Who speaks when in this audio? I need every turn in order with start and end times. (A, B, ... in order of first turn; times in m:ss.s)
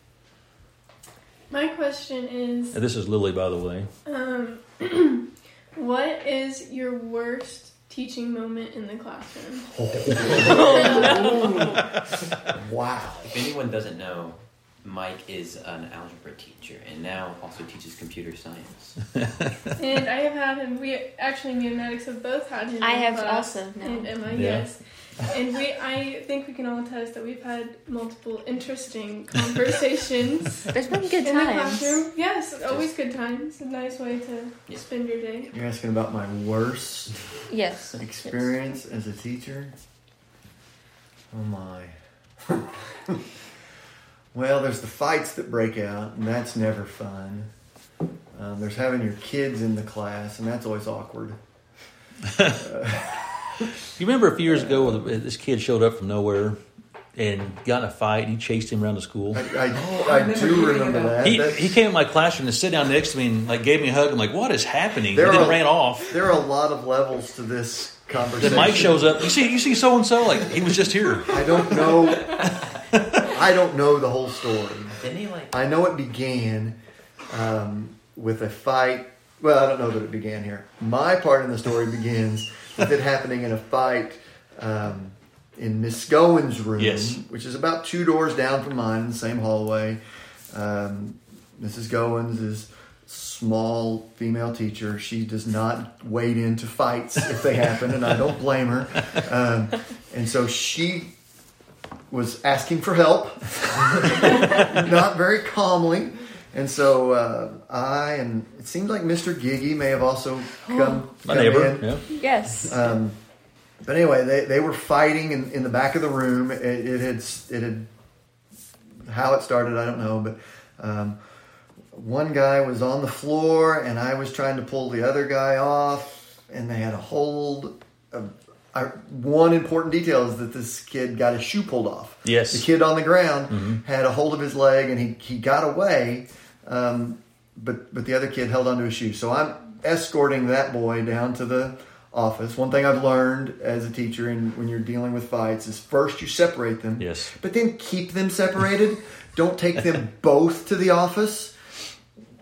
0:01.5-0:02.8 A
0:02.7-0:03.9 B
0:04.1-0:09.7 A
0:09.7-0:13.3 C
0:10.1-0:11.1 D
0:10.3-0:11.8 E
0:10.6-0:11.5 A
0:13.2-0:19.0 D
0:19.2-0:19.7 B
0:19.8-0:35.5 A
0:22.8-0:24.2 E
0:24.3-0:24.7 B
0:30.7-0:32.0 E
0:35.5-0:37.2 C
0:37.5-0:38.5 E
0:37.9-0:39.8 C
0:41.3-0:43.3 C
0:44.3-0:47.5 C
0:48.3-0:51.4 C
0:52.2-0:52.7 B
0:52.5-0:53.7 C
0:53.8-0:56.6 B
0:54.5-0:55.0 C
0:57.2-0:59.5 B
0:59.3-1:01.7 C
0:59.7-1:01.3 D
1:01.2-1:06.2 B
1:05.1-1:09.2 C
1:08.4-1:11.7 B
1:11.3-1:12.4 C
1:12.1-1:12.5 D
1:12.6-1:13.3 B
1:13.2-1:15.0 C
1:14.9-1:15.5 D
1:15.5-1:16.8 C
1:17.3-1:30.0 C
1:26.8-1:27.2 B
1:30.5-1:41.1 C
1:42.1-1:52.0 C
1:51.2-1:52.0 B
1:52.1-1:52.8 E
1:52.6-1:53.2 C
1:53.8-1:57.9 C
1:59.0-2:01.2 C
2:01.9-2:31.6 C
2:12.2-2:12.7 B
2:13.5-2:13.8 B
2:27.0-2:27.4 B